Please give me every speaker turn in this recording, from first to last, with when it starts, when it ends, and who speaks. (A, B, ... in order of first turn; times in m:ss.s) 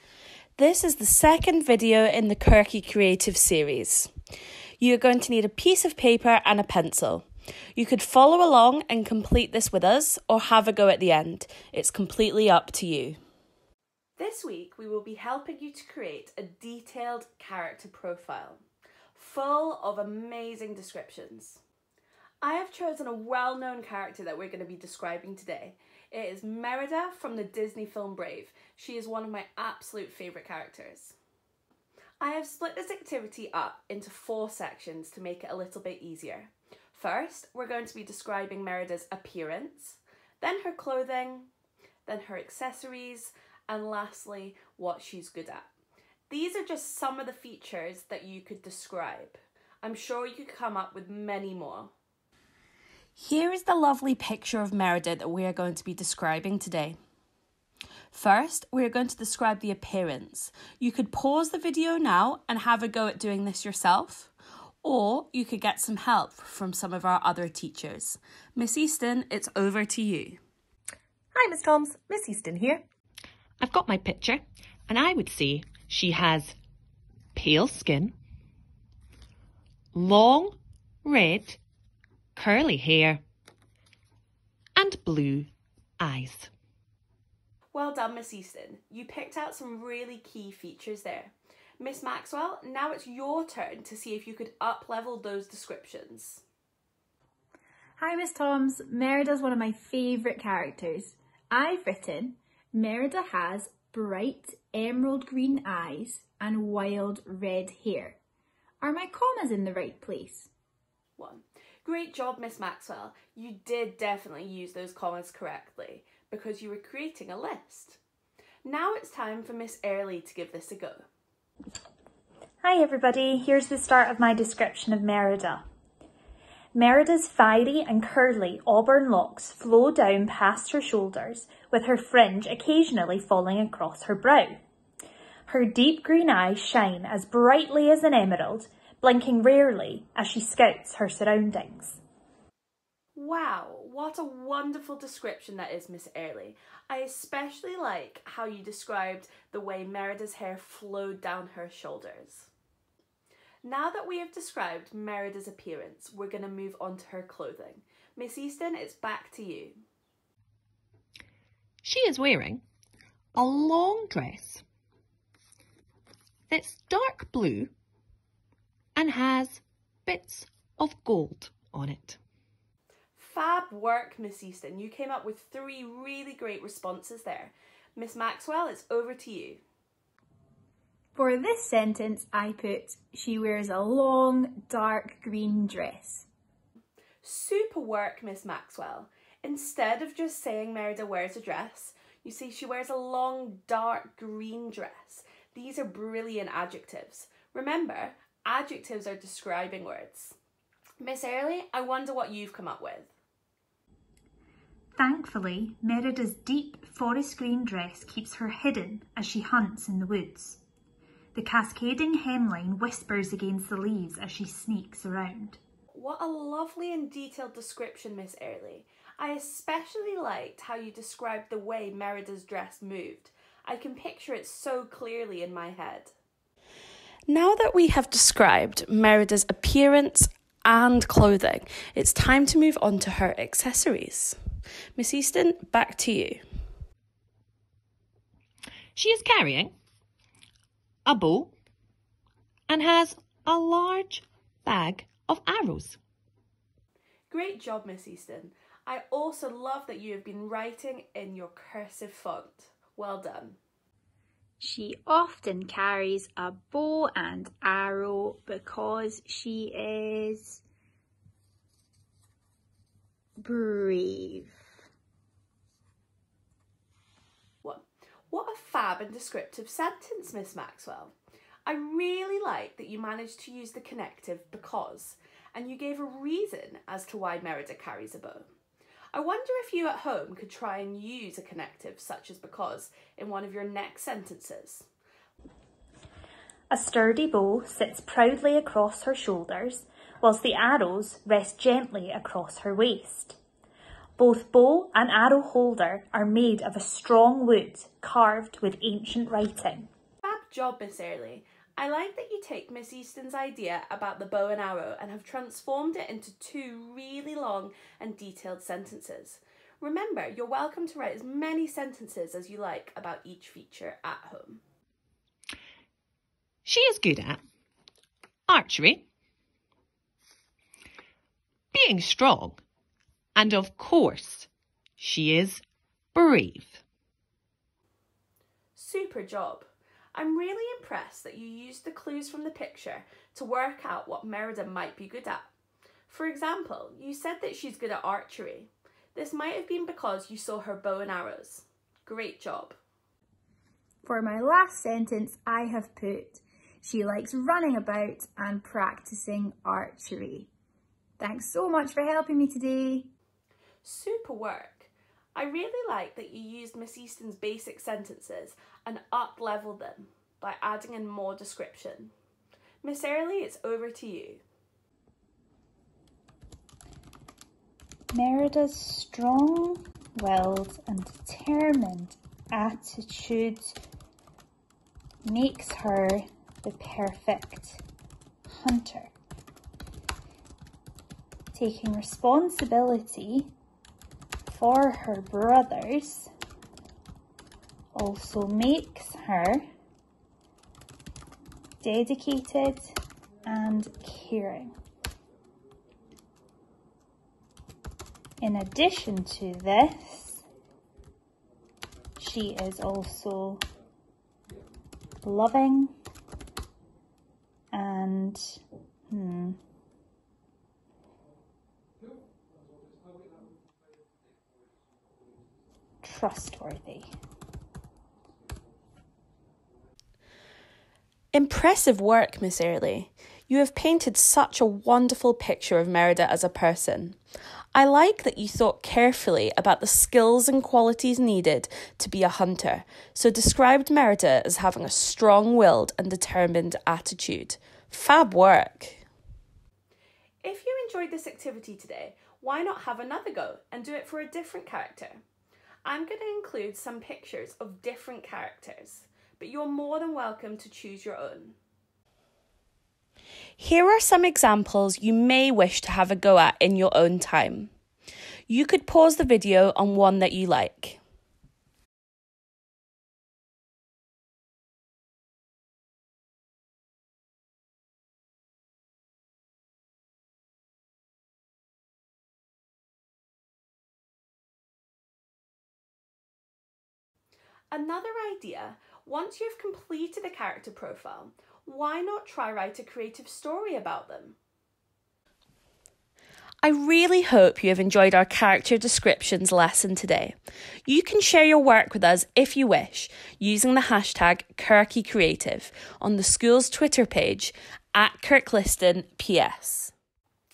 0:00.6-0:04.1 A
0:04.8-0:13.2 A
0:14.2-0:18.6 A
0:19.2-0:21.6 A
0:22.4-0:31.2 A
0:32.2-0:41.5 A
0:42.1-0:45.7 A
0:46.3-0:51.9 A
0:53.2-0:57.0 A
0:58.1-1:04.3 A
1:04.8-1:10.4 A
1:11.3-1:12.8 B
1:13.6-1:16.6 B
1:17.4-1:18.1 B
1:19.9-1:21.6 B
1:22.4-1:23.2 B
1:24.8-1:26.5 B
1:27.7-1:36.4 A
1:38.0-1:48.2 C
1:48.8-1:50.5 C
1:51.2-1:58.0 A
1:58.6-2:01.0 A
2:02.6-2:05.7 D
2:06.7-2:14.6 D
2:15.5-2:22.0 D
2:23.2-2:32.5 A
2:33.6-2:39.8 A
2:41.8-2:42.6 B
2:43.4-2:44.6 B
2:46.5-2:47.7 B
2:49.0-2:52.2 B
2:53.2-2:59.6 A
3:01.2-3:06.3 C
3:07.2-3:20.4 A
3:21.0-3:23.1 A
3:25.0-3:30.6 D
3:31.3-3:35.6 D
3:35.9-3:46.1 A
3:47.3-3:54.4 A
3:55.0-3:56.4 A
3:59.0-3:59.7 B
4:01.1-4:01.5 B
4:02.7-4:06.0 B
4:07.3-4:13.6 A
4:14.6-4:20.6 C
4:23.4-4:24.5 C
4:27.6-4:31.1 A
4:31.7-4:38.5 A
4:39.1-4:44.9 A
4:46.7-4:53.4 D
4:54.2-4:59.9 D
5:00.2-5:14.6 A
5:16.6-5:17.4 B
5:18.5-5:19.1 B
5:21.7-5:22.6 B
5:23.4-5:25.6 B
5:26.2-5:26.8 B
5:28.8-5:35.5 A
5:36.1-5:42.8 A
5:44.0-5:50.5 C
5:51.2-5:53.1 C
5:53.8-6:02.1 A
6:02.8-6:04.4 A
6:08.2-6:12.2 D
6:12.7-6:13.7 D
6:15.3-6:16.1 D
6:16.6-6:17.8 D
6:21.6-6:23.3 D
6:24.5-6:26.3 D
6:28.0-6:29.2 D
6:31.8-6:32.9 D
6:33.5-6:34.7 D
6:38.4-6:40.4 D
6:42.2-6:43.6 D
6:45.2-6:46.0 D
6:47.7-6:49.6 D
6:56.0-6:57.1 D
7:01.3-7:07.2 A
7:07.8-7:19.0 A
7:20.4-7:25.2 A
7:25.8-7:31.6 A
7:33.6-7:37.7 A
7:38.5-7:41.0 A
7:57.7-8:04.4 A
8:06.6-8:10.4 A
8:10.9-8:19.9 A